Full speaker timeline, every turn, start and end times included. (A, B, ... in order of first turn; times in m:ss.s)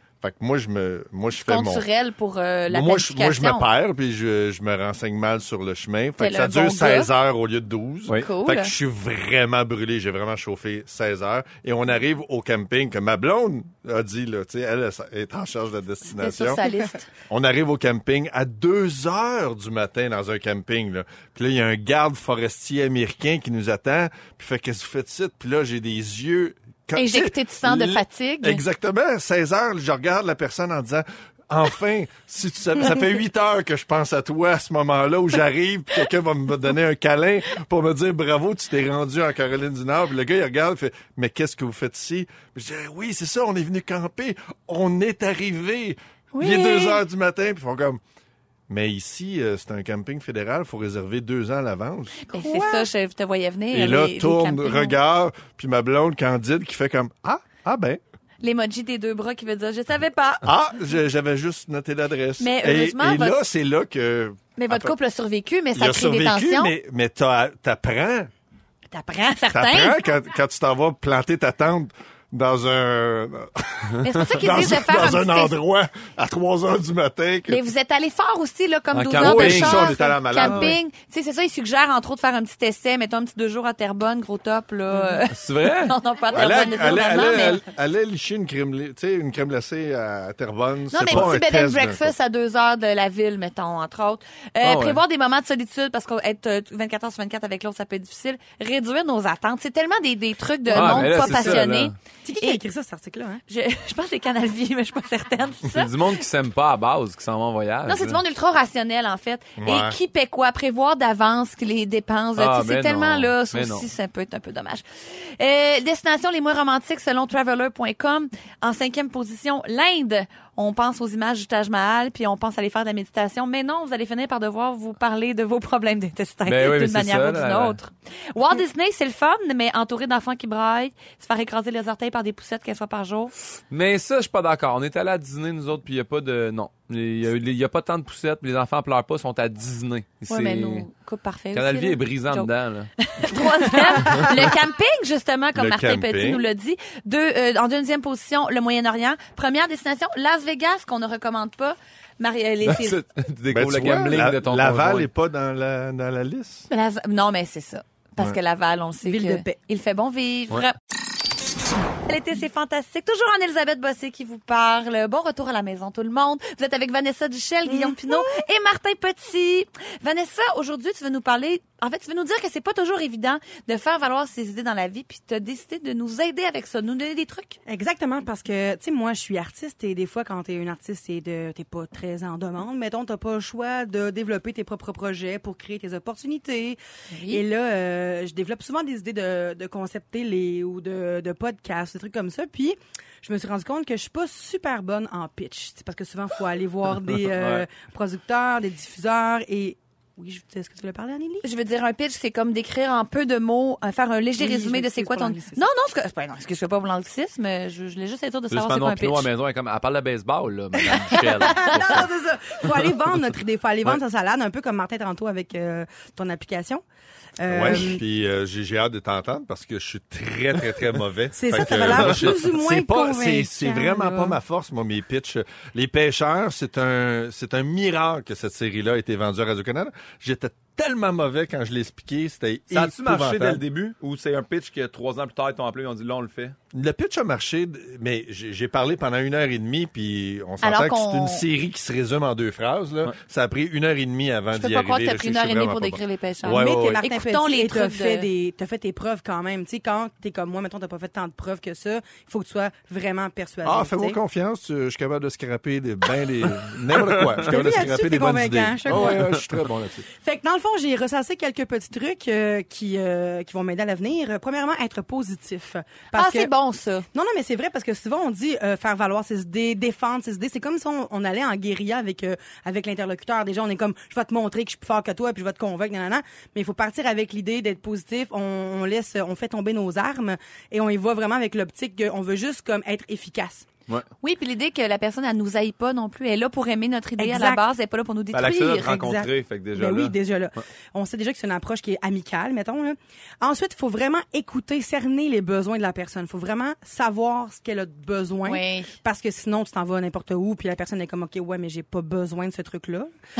0:00.2-0:01.8 A
0:01.4-0:03.7 B
0:02.7-0:16.6 A
0:06.2-0:07.1 B
0:08.2-0:08.7 B
0:16.1-0:17.1 B
0:17.3-0:48.0 A
0:27.0-0:28.6 B
0:46.3-0:47.0 B
0:48.7-0:52.6 A
0:52.3-0:55.0 B
0:52.4-0:52.8 C
0:53.7-0:58.0 A
0:58.4-1:00.4 B
1:00.4-1:04.9 A
1:02.4-1:03.4 B
1:04.6-1:06.7 B
1:05.7-1:08.3 A
1:08.9-1:10.0 B
1:09.5-1:17.6 A
1:14.0-1:15.6 B
1:17.5-1:27.6 B
1:18.9-1:20.0 D
1:19.2-1:20.8 A
1:20.4-1:20.7 C
1:25.3-1:25.9 D
1:26.3-1:32.1 A
1:30.9-1:42.6 B
1:34.6-1:35.0 D
1:40.7-1:41.9 D
1:40.7-1:41.6 C
1:42.2-1:43.4 C
1:43.5-1:45.9 B
1:45.7-1:48.2 D
1:47.9-2:13.3 B
1:49.6-1:50.0 A
1:52.4-1:53.9 D
2:06.4-2:07.8 D
2:13.7-2:20.9 D
2:20.3-2:33.0 B
2:21.5-2:22.9 D
2:25.5-2:26.4 A
2:32.6-2:35.1 D
2:33.5-2:36.7 A
2:36.7-2:40.8 B
2:39.0-2:39.6 C
2:42.0-2:57.6 B
2:47.7-2:48.4 C
2:57.7-3:21.4 C
3:07.1-3:07.4 B
3:17.3-3:17.6 D
3:21.4-3:29.3 B
3:24.4-3:25.6 C
3:28.5-3:32.1 D
3:30.9-3:36.8 C
3:31.1-3:31.7 B
3:37.4-3:38.0 C
3:37.5-3:53.6 A
3:41.3-3:44.4 C
3:41.7-3:42.3 D
3:52.7-3:56.6 D
3:56.7-4:07.0 A
4:00.6-4:01.4 B
4:04.5-4:08.3 B
4:06.4-4:14.2 C
4:13.6-4:20.0 A
4:17.0-4:17.5 D
4:17.4-4:19.2 C
4:18.9-4:19.7 D
4:20.1-4:26.5 C
4:26.1-4:27.0 B
4:27.1-4:43.7 C
4:44.2-4:49.0 B
4:47.2-4:47.6 C
4:48.3-4:50.1 D
4:48.8-5:03.1 C
4:58.4-4:58.9 B